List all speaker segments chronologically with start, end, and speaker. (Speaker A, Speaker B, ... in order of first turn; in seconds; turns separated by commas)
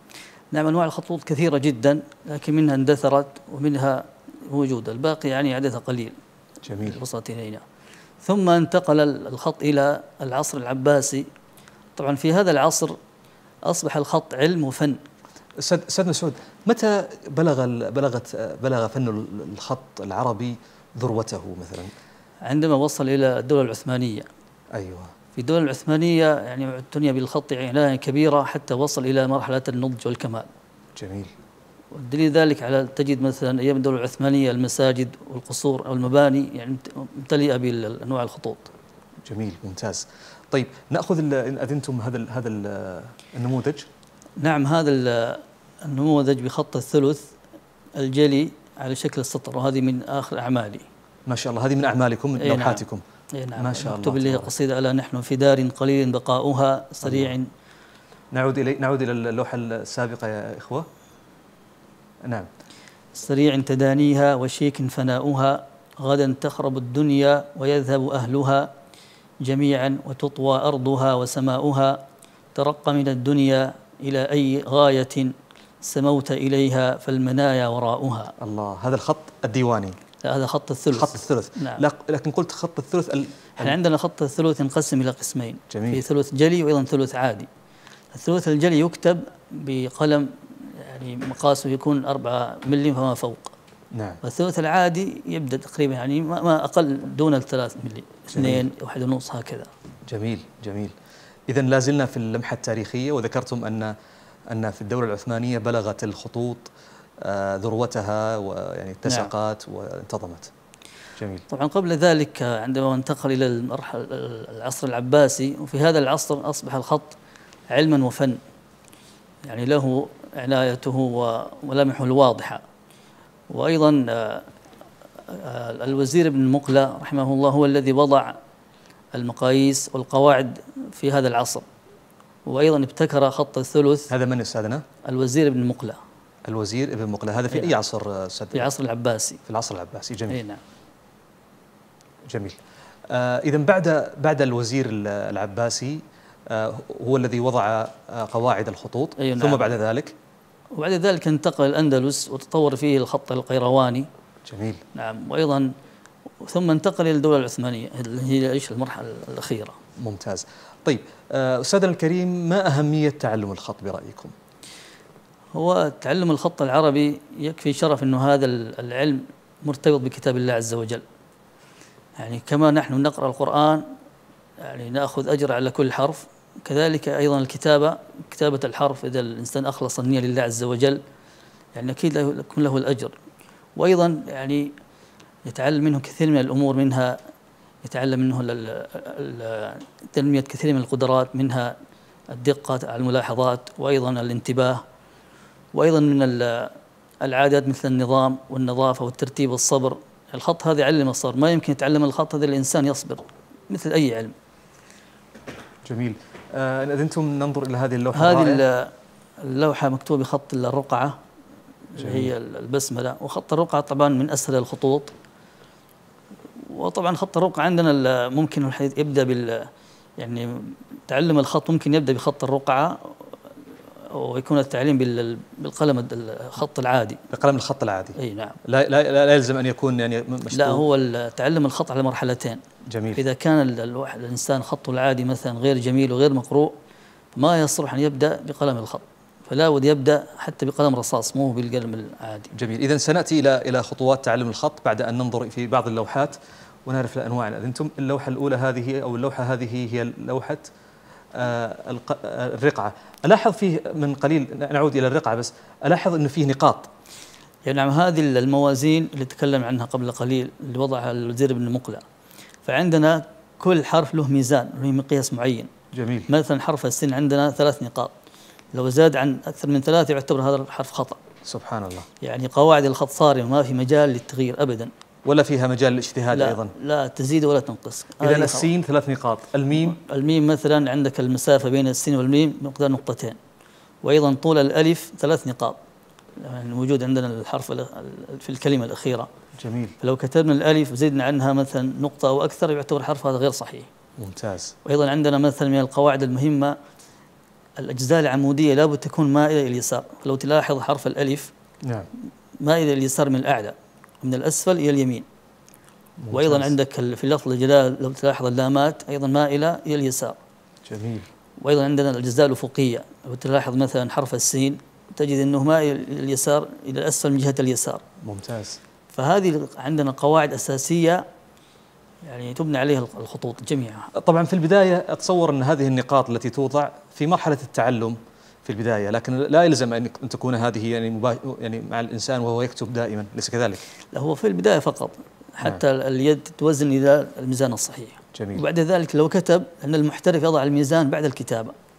Speaker A: 0.5-6.2, Speaker B: 6.6-7.0, Speaker A: 6.8-7.6, Speaker A: 8.2-11.3, Speaker A: 11.9-13.0, Speaker A: 13.7-15.0, Speaker B: 15.6-21.9, Speaker A: 22.4-24.3, Speaker B: 24.7-25.1, Speaker A: 25.4-30.5, Speaker B: 30.9-31.3, Speaker A: 31.9-38.7, Speaker B: 39.2-43.9, Speaker A: 44.4-47.3, Speaker A: 48.0-50.9, Speaker B: 51.3-53.0, Speaker A: 52.4-57.5, Speaker B: 53.5-54.5, Speaker B: 57.0-57.3, Speaker B: 58.3-60.9, Speaker B: 62.2-62.5, Speaker A: 63.1-68.7, Speaker A: 69.4-72.0, Speaker A: 72.5-78.3, Speaker B: 78.4-80.0, Speaker A: 80.2-81.8, Speaker B: 80.9-83.8, Speaker A: 83.6-87.5, Speaker B: 85.7-86.0, Speaker A: 88.1-93.5, Speaker B: 93.9-94.2, Speaker A: 94.2-99.7, Speaker B: 98.3-98.7, Speaker B: 100.1-100.9, Speaker B: 101.5-103.9, Speaker B: 104.5-110.5, Speaker B: 111.2-111.5, Speaker A: 111.5-117.2, Speaker A: 117.7-118.4, Speaker A: 119.4-122.6, Speaker A: 123.5-124.5, Speaker A: 125.3-128.4, Speaker A: 129.1-131.7, Speaker A: 132.4-134.1, Speaker B: 134.1-134.8, Speaker A: 135.0-136.0, Speaker B: 136.4-138.7, Speaker A: 138.5-139.4, Speaker B: 139.4-140.4, Speaker A: 140.3-140.6, Speaker B: 142.3-150.1, Speaker A: 149.2-149.8, Speaker A: 150.7-154.1, Speaker B: 154.4-154.8, Speaker A: 154.9-155.7, Speaker A: 156.4-159.8, Speaker B: 160.0-164.3, Speaker A: 165.5-171.0, Speaker A: 172.2-173.8, Speaker A: 174.6-181.0, Speaker A: 181.7-183.1, Speaker A: 183.8-184.7, Speaker A: 185.4-187.2, Speaker A: 187.8-191.8, Speaker A: 192.3-194.8, Speaker A: 195.7-204.3, Speaker B: 205.8-208.6, Speaker A: 208.1-211.2, Speaker A: 211.9-215.1, Speaker B: 212.0-212.3, Speaker A: 216.7-223.3, Speaker A: 224.1-227.2, Speaker B: 227.3-230.8, Speaker A: 228.2-228.6, Speaker A: 230.5-232.6, Speaker B: 232.9-233.2, Speaker A: 233.2-236.7, Speaker A: 237.3-242.5, Speaker B: 242.5-250.7, Speaker B: 251.3-256.9, Speaker A: 257.6-262.0, Speaker A: 262.6-265.7, Speaker B: 265.9-266.3, Speaker A: 266.3-268.1, Speaker A: 268.7-271.2, Speaker B: 271.4-272.1, Speaker A: 272.2-274.9, Speaker B: 275.2-276.7, Speaker A: 276.3-278.7, Speaker B: 278.2-280.0, Speaker A: 279.8-283.4, Speaker A: 284.0-285.8, Speaker A: 286.4-289.3, Speaker B: 289.6-289.9, Speaker A: 290.0-293.9, Speaker B: 294.2-294.7, Speaker A: 294.8-296.8, Speaker A: 297.8-301.5, Speaker B: 301.8-302.1, Speaker A: 302.6-305.2, Speaker B: 306.2-306.7, Speaker A: 306.3-310.4, Speaker B: 310.8-311.3, Speaker A: 311.6-318.0, Speaker B: 318.2-318.8, Speaker A: 319.1-321.2, Speaker A: 322.2-324.1, Speaker B: 324.1-333.8, Speaker A: 334.1-341.7, Speaker B: 338.3-338.6